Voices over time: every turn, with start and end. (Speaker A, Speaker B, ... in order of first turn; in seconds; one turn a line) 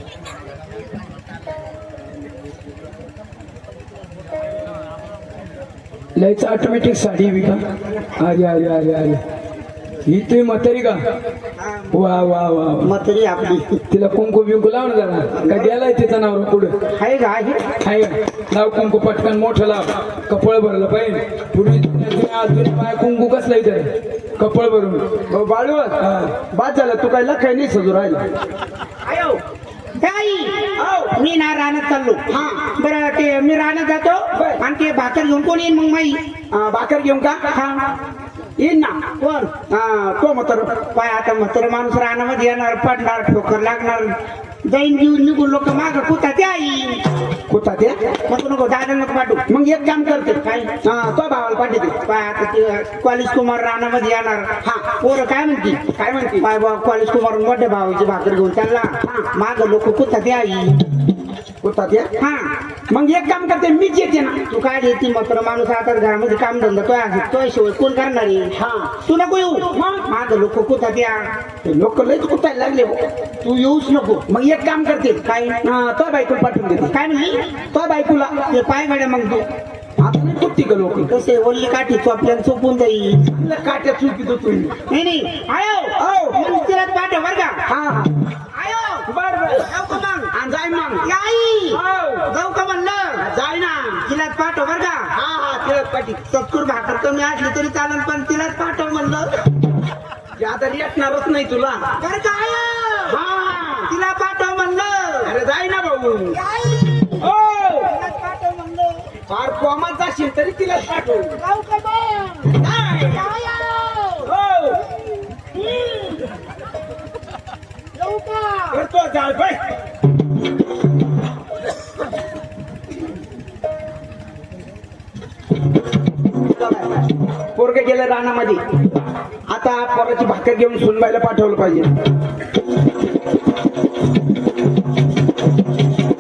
Speaker A: 6.2-7.7
Speaker A: 8.2-9.2
Speaker A: 10.1-11.0
Speaker A: 11.9-12.9
Speaker B: 12.8-13.8
Speaker A: 13.9-16.8
Speaker B: 16.9-17.6
Speaker A: 17.8-25.2
Speaker C: 25.3-26.0
Speaker A: 26.0-26.4
Speaker C: 26.5-28.3
Speaker B: 29.1-29.4
Speaker B: 30.0-36.2
Speaker C: 30.8-31.1
Speaker C: 32.3-32.6
Speaker C: 34.4-34.6
Speaker C: 36.5-37.5
Speaker B: 37.5-37.9
Speaker C: 38.6-39.1
Speaker B: 39.2-39.5
Speaker C: 39.7-40.8
Speaker B: 40.8-47.1
Speaker C: 47.5-48.2
Speaker B: 48.2-49.5
Speaker C: 49.5-52.0
Speaker B: 50.4-50.8
Speaker B: 52.0-60.9
Speaker C: 54.6-55.0
Speaker C: 56.0-56.4
Speaker C: 61.6-62.1
Speaker B: 62.2-62.6
Speaker C: 62.9-64.5
Speaker B: 64.5-71.3
Speaker C: 68.6-68.9
Speaker C: 71.6-73.0
Speaker B: 73.4-74.3
Speaker C: 74.3-76.9
Speaker B: 75.2-75.6
Speaker B: 76.9-77.5
Speaker C: 77.7-78.5
Speaker B: 78.4-79.5
Speaker C: 80.0-81.1
Speaker B: 81.1-83.2
Speaker C: 83.3-84.8
Speaker B: 84.9-87.6
Speaker C: 86.0-86.5
Speaker C: 87.7-88.1
Speaker B: 88.5-89.1
Speaker C: 89.1-89.7
Speaker B: 89.6-90.3
Speaker C: 90.3-91.1
Speaker B: 91.0-93.2
Speaker C: 91.8-92.3
Speaker C: 93.2-94.0
Speaker B: 94.0-95.1
Speaker C: 95.2-96.3
Speaker B: 96.3-99.4
Speaker C: 100.4-102.0
Speaker B: 102.0-105.3
Speaker C: 105.2-106.4
Speaker B: 106.5-107.2
Speaker C: 107.2-107.9
Speaker B: 107.8-109.1
Speaker C: 109.3-111.4
Speaker B: 111.5-114.3
Speaker C: 114.2-114.8
Speaker B: 115.7-116.1
Speaker B: 118.0-118.8
Speaker C: 118.7-119.6
Speaker C: 126.6-126.9
Speaker C: 127.5-128.6
Speaker C: 129.5-131.9